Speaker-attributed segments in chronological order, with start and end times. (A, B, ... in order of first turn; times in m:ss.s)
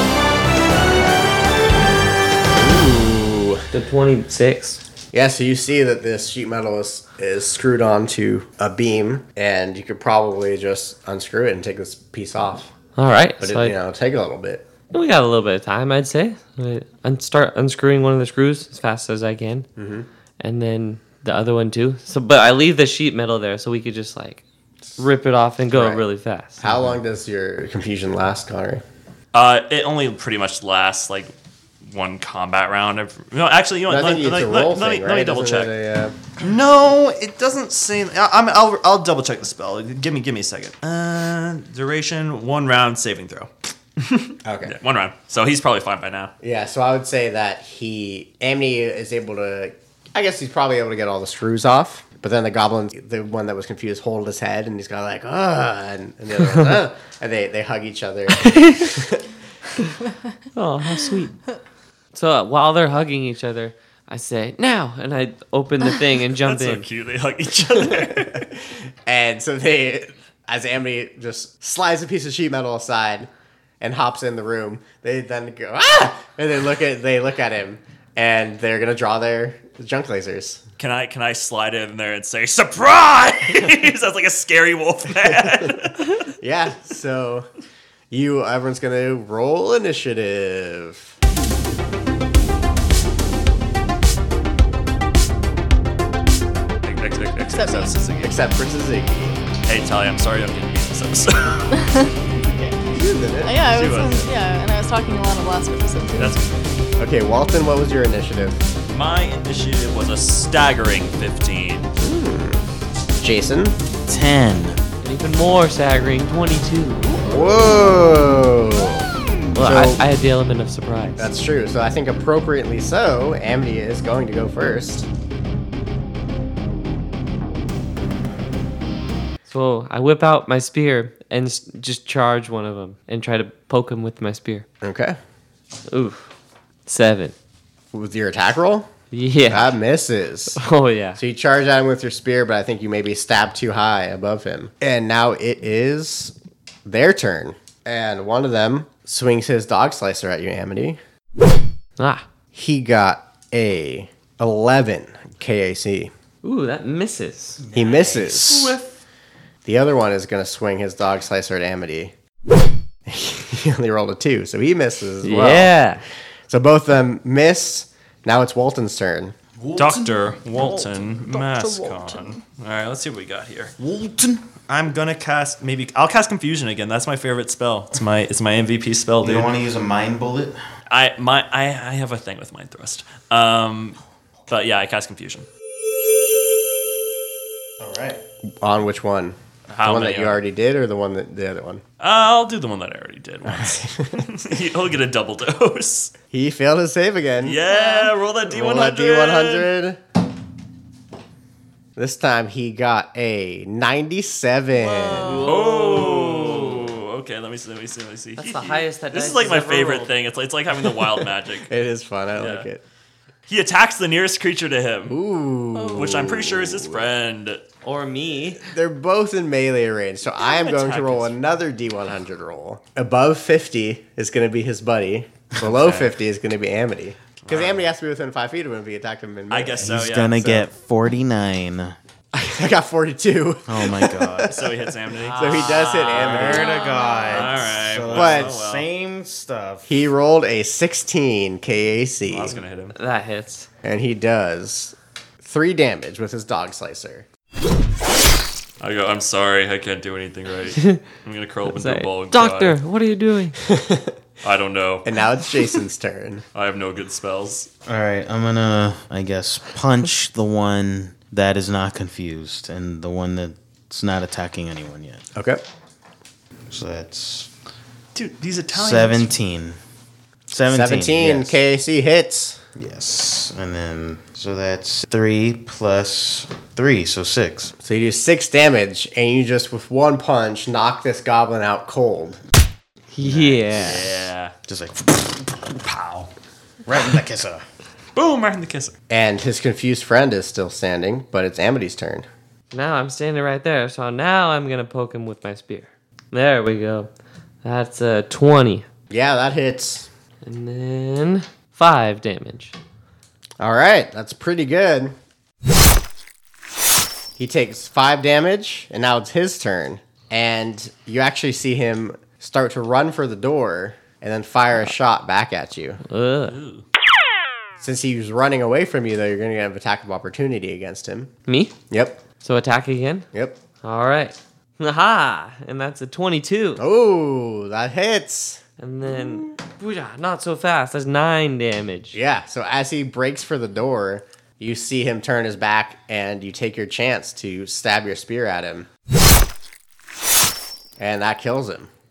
0:02.5-0:03.7 A
0:03.7-0:04.8 B
0:05.1-0:12.7 A
0:13.0-0:13.8 B
0:13.4-0:14.7 A
0:14.9-0:19.7 B
0:19.8-0:20.1 A
0:20.4-0:24.4 B
0:25.0-0:26.6 B
0:25.7-0:26.0 A
0:26.6-0:28.8 A
0:29.3-0:31.3 C
0:31.8-0:35.7 C
0:33.9-0:36.2 A
0:36.4-0:46.3 C
0:44.4-0:44.7 A
0:46.4-0:59.2 A
0:58.4-0:58.7 B
1:00.5-1:01.4 B
1:02.1-1:06.9 B
1:06.4-1:08.5 C
1:07.8-1:08.5 A
1:09.0-1:13.3 A
1:13.8-1:20.6 A
1:20.8-1:26.2 C
1:26.4-1:27.5 A
1:28.1-1:31.1 A
1:36.8-1:38.4 C
1:37.5-1:38.0 D
1:38.2-1:39.4 A
1:39.6-1:41.7 C
1:41.7-1:42.7 D
1:42.9-1:43.6 A
1:43.4-1:46.4 D
1:43.7-1:44.3 C
1:46.2-1:46.5 C
1:47.0-1:48.6 A
1:48.9-1:51.9 C
1:52.0-1:52.6 A
1:53.2-1:53.8 A
1:54.1-1:54.8 E
1:55.0-1:57.2 B
1:57.1-1:59.0 A
1:59.5-2:01.3 B
1:59.6-2:00.0 A
2:01.2-2:05.1 A
2:09.5-2:14.6 B
2:14.8-2:15.2 A
2:15.9-2:16.3 B
2:16.8-2:17.3 B
2:17.9-2:18.9 A
2:19.1-2:19.8 B
2:19.5-2:20.6 A
2:20.5-2:21.2 B
2:21.2-2:26.3 A
2:26.8-2:31.0 A
2:32.0-2:32.3 B
2:32.5-2:36.1 A
2:36.4-2:37.6 B
2:37.6-2:38.8 E
2:37.7-2:38.7 A
2:38.5-2:38.8 C
2:39.6-2:42.1 A
2:43.1-2:45.7 A
2:45.2-2:46.0 B
2:46.5-2:49.3 A
2:49.6-2:50.9 E
2:49.8-2:53.7 C
2:51.3-2:52.4 D
2:53.8-2:54.4 E
2:54.7-2:59.5 C
2:59.2-3:00.6 E
3:00.9-3:05.5 C
3:07.8-3:08.2 E
3:08.6-3:11.8 A
3:09.7-3:10.4 C
3:12.0-3:16.1 C
3:13.4-3:14.3 A
3:16.3-3:17.6 A
3:17.4-3:19.7 C
3:17.6-3:18.1 D
3:18.4-3:20.0 A
3:22.0-3:25.5 A
3:24.8-3:25.4 D
3:25.2-3:26.9 B
3:25.4-3:31.7 C
3:28.4-3:30.1 B
3:31.6-3:32.8 A
3:32.3-3:32.7 C
3:33.5-3:35.2 C
3:35.1-3:37.0 A
3:35.7-3:36.1 D
3:35.9-3:37.6 C
3:37.8-3:38.6 B
3:38.6-3:49.9 A
3:40.4-3:41.3 C
3:45.6-3:46.1 C
3:47.4-3:47.9 C
3:49.5-3:50.6 C
3:49.8-3:52.0 E
3:52.3-3:56.7 A
3:53.7-3:54.6 E
3:54.5-3:56.6 C
3:55.2-3:56.6 B
3:56.1-3:59.9 E
3:56.4-3:57.5 D
3:57.3-3:58.8 C
3:58.1-3:58.6 A
3:59.9-4:02.6 A
4:02.3-4:03.0 C
4:02.9-4:03.7 B
4:03.8-4:07.2 A
4:08.8-4:12.8 C
4:10.8-4:11.0 B
4:11.6-4:13.6 B
4:13.6-4:14.2 A
4:14.4-4:15.1 C
4:15.0-4:16.4 A
4:16.5-4:17.7 C
4:17.8-4:25.2 E
4:25.4-4:25.6 A
4:26.7-4:27.5 E
4:28.1-4:29.3 C
4:28.7-4:29.8 E
4:30.5-4:31.6 E
4:30.7-4:32.6 A
4:32.8-4:37.7 E
4:37.8-4:42.4 A
4:43.1-4:44.0 B
4:43.2-4:45.6 E
4:43.7-4:44.5 C
4:45.7-4:46.3 C
4:46.8-4:47.6 E
4:48.1-4:48.9 C
4:49.1-4:52.2 A
4:52.7-4:57.1 B
4:57.6-4:58.8 B
4:59.1-5:00.1 A
5:00.4-5:02.8 B
5:03.6-5:05.1 A
5:07.4-5:16.0 A
5:16.1-5:16.6 B
5:16.5-5:16.8 C
5:17.8-5:21.3 A
5:21.5-5:21.8 B
5:21.9-5:22.2 A
5:22.4-5:23.3 B
5:23.3-5:23.6 A
5:23.8-5:26.8 B
5:26.8-5:28.6 A
5:28.8-5:32.2 B
5:32.1-5:38.9 A
5:41.0-5:41.9 A